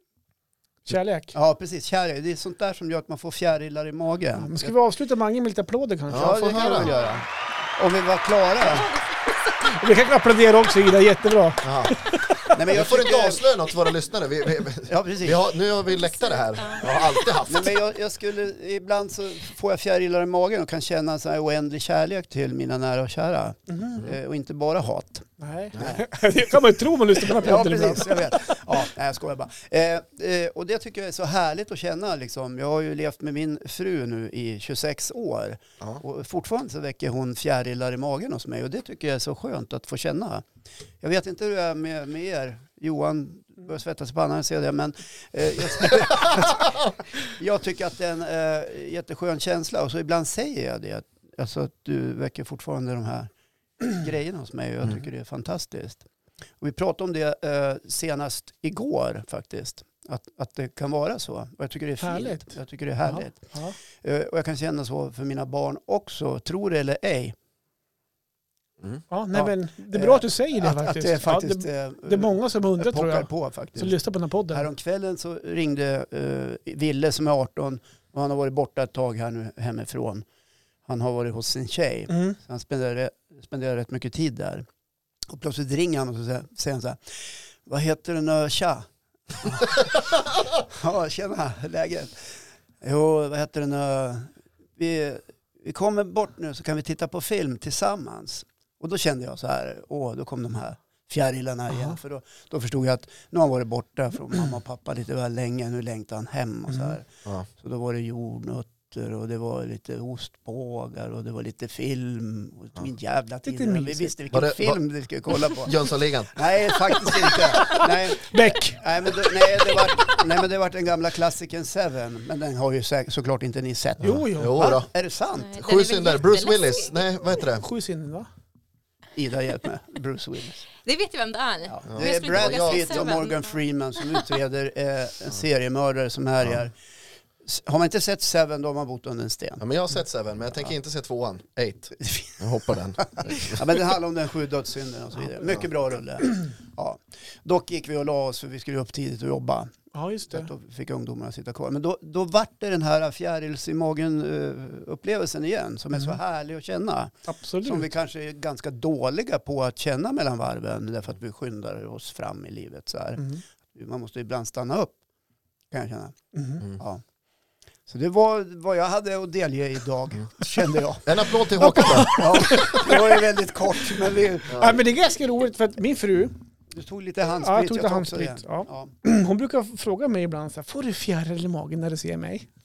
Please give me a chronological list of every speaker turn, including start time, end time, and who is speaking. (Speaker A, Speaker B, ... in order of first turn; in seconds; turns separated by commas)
Speaker A: 0.8-1.3, Speaker B: 1.3-4.7, Speaker A: 4.4-7.0, Speaker C: 6.1-6.9, Speaker B: 6.1-8.9, Speaker D: 6.8-7.2, Speaker D: 8.6-9.6, Speaker A: 9.6-12.3, Speaker C: 11.6-11.9, Speaker B: 12.5-13.4, Speaker C: 12.7-17.8, Speaker B: 14.8-15.4, Speaker D: 15.8-17.4, Speaker B: 17.5-25.3, Speaker A: 23.7-24.0, Speaker A: 25.4-28.5, Speaker B: 27.3-40.4, Speaker B: 41.0-46.7, Speaker B: 47.3-53.3, Speaker B: 53.8-56.0, Speaker B: 56.6-67.3, Speaker A: 62.0-62.5, Speaker A: 63.0-63.8, Speaker A: 69.1-74.7, Speaker B: 69.3-74.0, Speaker B: 74.5-80.2, Speaker B: 80.8-84.7, Speaker A: 82.1-82.4, Speaker B: 85.3-89.8, Speaker B: 90.6-125.5, Speaker A: 101.7-102.0, Speaker A: 113.5-114.1, Speaker C: 114.3-114.8, Speaker C: 115.6-116.4, Speaker A: 117.3-119.8, Speaker A: 124.0-124.8, Speaker C: 124.0-124.9, Speaker D: 125.4-126.9, Speaker C: 125.6-127.6, Speaker A: 127.6-128.3, Speaker B: 129.2-130.7, Speaker D: 130.8-133.6, Speaker B: 131.7-136.7, Speaker C: 131.9-133.2, Speaker B: 137.4-139.6, Speaker C: 139.6-143.6, Speaker B: 142.0-165.0, Speaker A: 149.9-150.5, Speaker A: 157.3-157.9, Speaker B: 165.7-167.0, Speaker A: 166.3-166.6, Speaker B: 167.9-171.1, Speaker C: 171.0-172.7, Speaker A: 171.5-173.2, Speaker B: 172.0-174.8, Speaker A: 174.6-176.3, Speaker B: 176.7-178.9, Speaker A: 177.4-182.5